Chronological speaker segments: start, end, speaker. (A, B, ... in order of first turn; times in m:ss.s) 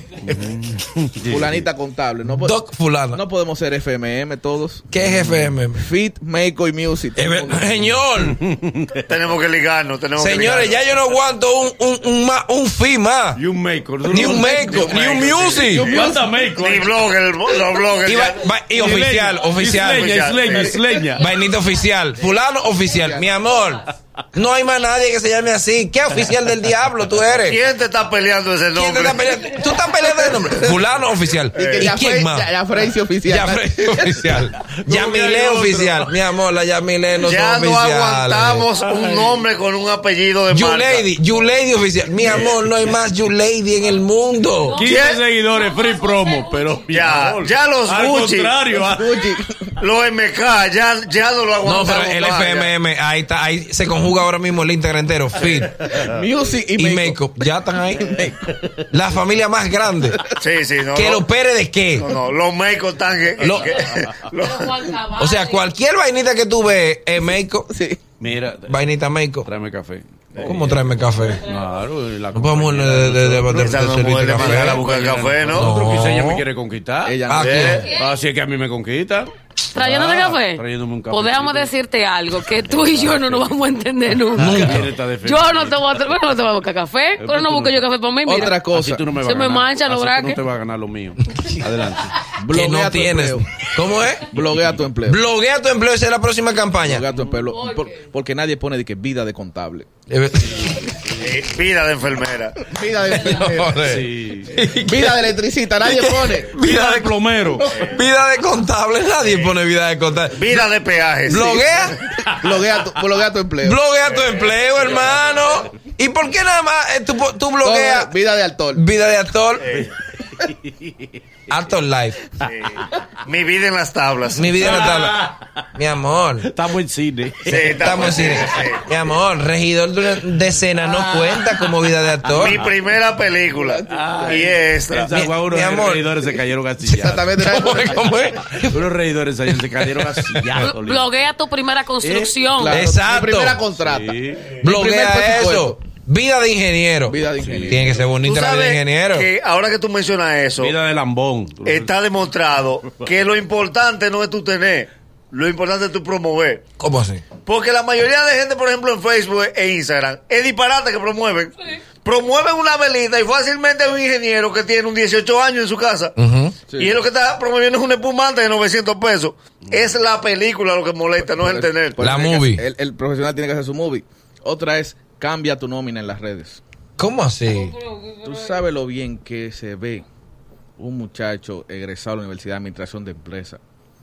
0:00.2-0:01.6 A
0:01.2-0:02.6 B
0:02.4-0:03.2 C
0:03.1-0:04.9 B
0:04.9-0:05.8 C
0:05.2-0:05.5 A
0:05.7-0:07.8 B
0:07.2-0:08.4 C
0:08.3-0:09.0 A
0:09.1-0:10.8 D
0:10.2-0:13.4 C
0:13.3-0:17.1 A
0:14.1-0:15.9 C
0:15.7-0:16.3 B
0:16.6-0:18.4 D
0:18.0-0:20.2 C
0:18.7-0:21.2 A
0:19.8-0:20.8 D
0:21.2-0:27.6 C
0:21.2-0:21.6 E
0:22.8-0:23.3 B
0:27.5-0:29.3 D
0:28.7-0:32.5 C
0:31.5-0:31.9 D
0:31.7-0:34.2 B
0:33.2-0:38.7 C
0:34.6-0:36.1 A
0:37.2-0:41.1 D
0:38.8-0:39.4 A
0:40.5-0:44.8 C
0:42.2-0:42.8 A
0:44.6-0:47.0 E
0:44.7-0:49.2 A
0:44.8-0:45.2 D
0:46.9-0:48.6 D
0:48.7-0:49.8 B
0:49.8-0:52.7 D
0:51.6-0:55.7 C
0:55.9-0:57.2 B
0:56.8-0:58.2 C
0:58.0-0:58.5 B
0:58.9-1:00.2 C
1:00.4-1:01.2 D
1:00.9-1:02.1 C
1:02.0-1:04.9 D
1:03.4-1:03.7 C
1:04.3-1:05.6 E
1:05.2-1:07.7 C
1:07.7-1:08.0 B
1:08.2-1:08.8 A
1:08.7-1:09.5 C
1:09.4-1:13.8 A
1:10.4-1:11.4 C
1:12.3-1:14.8 C
1:13.5-1:15.7 D
1:14.4-1:17.2 A
1:15.5-1:16.4 C
1:17.0-1:17.8 B
1:17.3-1:17.9 C
1:17.4-1:17.8 D
1:17.9-1:21.7 A
1:19.7-1:28.6 E
1:22.5-1:23.6 A
1:24.3-1:26.0 A
1:24.4-1:24.9 C
1:27.2-1:27.9 A
1:28.2-1:29.1 B
1:28.7-1:32.1 A
1:29.2-1:30.4 E
1:32.4-1:33.4 B
1:32.5-1:34.3 C
1:34.3-1:35.2 B
1:34.4-1:34.8 A
1:35.0-1:37.0 C
1:36.8-1:39.9 B
1:37.5-1:38.0 E
1:40.1-1:40.9 C
1:40.6-1:41.2 A
1:41.2-1:42.6 D
1:42.6-1:43.8 B
1:43.2-1:45.2 C
1:43.8-1:44.5 A
1:44.8-1:46.5 B
1:45.8-1:50.6 C
1:46.6-1:47.7 A
1:47.7-1:48.0 D
1:50.3-1:51.5 D
1:51.2-1:52.0 C
1:51.3-1:53.8 B
1:53.6-1:58.1 C
1:54.0-1:54.4 D
1:57.6-1:58.8 B
1:58.7-1:59.8 C
1:59.6-1:59.9 D
2:00.5-2:01.2 A
2:01.5-2:02.2 C
2:02.4-2:04.8 D
2:04.3-2:06.5 C
2:04.6-2:05.6 A
2:06.4-2:08.0 A
2:07.4-2:08.8 D
2:07.8-2:12.6 C
2:12.3-2:12.8 A
2:12.4-2:15.1 D
2:13.9-2:17.3 A
2:15.1-2:16.1 C
2:16.9-2:18.0 B
2:17.4-2:18.8 C
2:18.7-2:21.2 A
2:20.3-2:20.7 C
2:20.6-2:22.8 E
2:22.0-2:22.3 A
2:22.6-2:25.8 B
2:22.7-2:23.6 C
2:23.8-2:24.5 A
2:24.6-2:29.3 C
2:27.0-2:28.0 B
2:27.4-2:28.0 A
2:28.2-2:30.8 D
2:30.6-2:31.9 A
2:31.6-2:36.6 D
2:36.8-2:37.2 C
2:37.4-2:46.1 D
2:46.2-2:46.6 C
2:46.7-2:46.9 B
2:46.7-2:52.0 D
2:51.2-2:56.6 B
2:52.0-2:52.6 C
2:57.0-2:57.8 C
2:57.5-2:58.3 E
2:58.2-3:00.0 B
3:00.8-3:03.6 B